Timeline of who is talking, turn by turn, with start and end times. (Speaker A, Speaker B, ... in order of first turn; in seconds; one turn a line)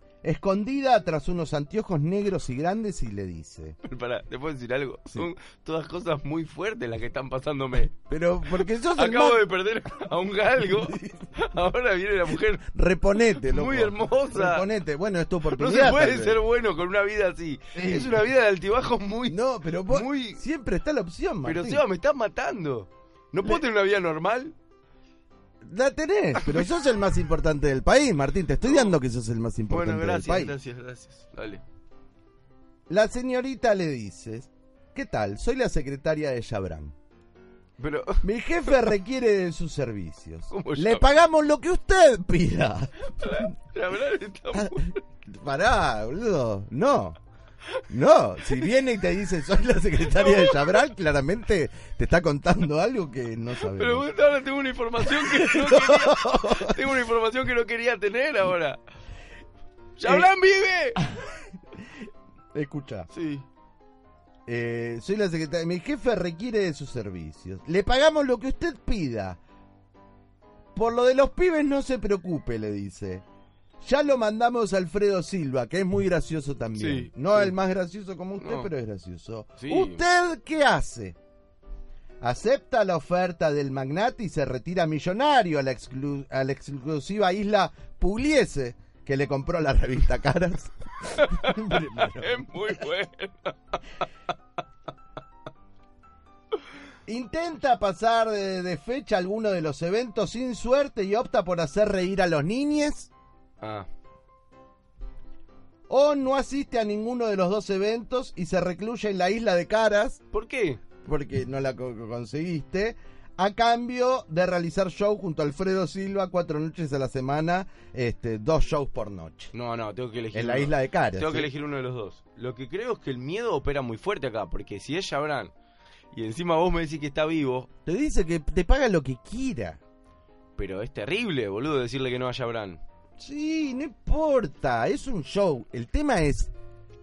Speaker A: 0.2-3.8
Speaker B: 3.8-7.9
Speaker A: 8.1-9.4
Speaker B: 8.5-14.7
Speaker A: 10.7-11.3
Speaker A: 12.3-16.4
Speaker B: 15.5-20.4
Speaker A: 17.7-18.3
Speaker A: 19.3-21.8
Speaker B: 21.4-24.6
Speaker A: 25.6-30.6
Speaker B: 26.4-26.8
Speaker B: 28.6-29.0
Speaker B: 29.7-31.6
Speaker A: 32.9-36.9
Speaker B: 37.8-38.8
Speaker A: 38.2-43.5
Speaker B: 40.5-41.1
Speaker B: 43.0-45.0
Speaker A: 44.5-47.2
Speaker A: 47.9-54.1
Speaker B: 50.1-50.8
Speaker B: 53.6-58.8
Speaker A: 55.0-56.8
Speaker B: 60.0-61.0
Speaker A: 62.5-63.1
Speaker B: 63.1-63.5
Speaker A: 64.5-69.4
Speaker A: 70.8-73.2
Speaker A: 73.8-81.2
Speaker B: 76.8-77.6
Speaker B: 78.4-78.7
Speaker B: 79.6-80.0
Speaker A: 82.2-92.8
Speaker B: 91.2-93.8
Speaker A: 97.1-103.1
Speaker B: 103.6-103.9
Speaker A: 105.9-110.2
Speaker B: 110.3-110.8
Speaker A: 111.0-119.5
Speaker B: 119.5-125.5
Speaker A: 120.3-121.5
Speaker B: 126.1-127.7
Speaker A: 127.8-129.8
Speaker B: 130.6-132.8
Speaker A: 133.2-136.5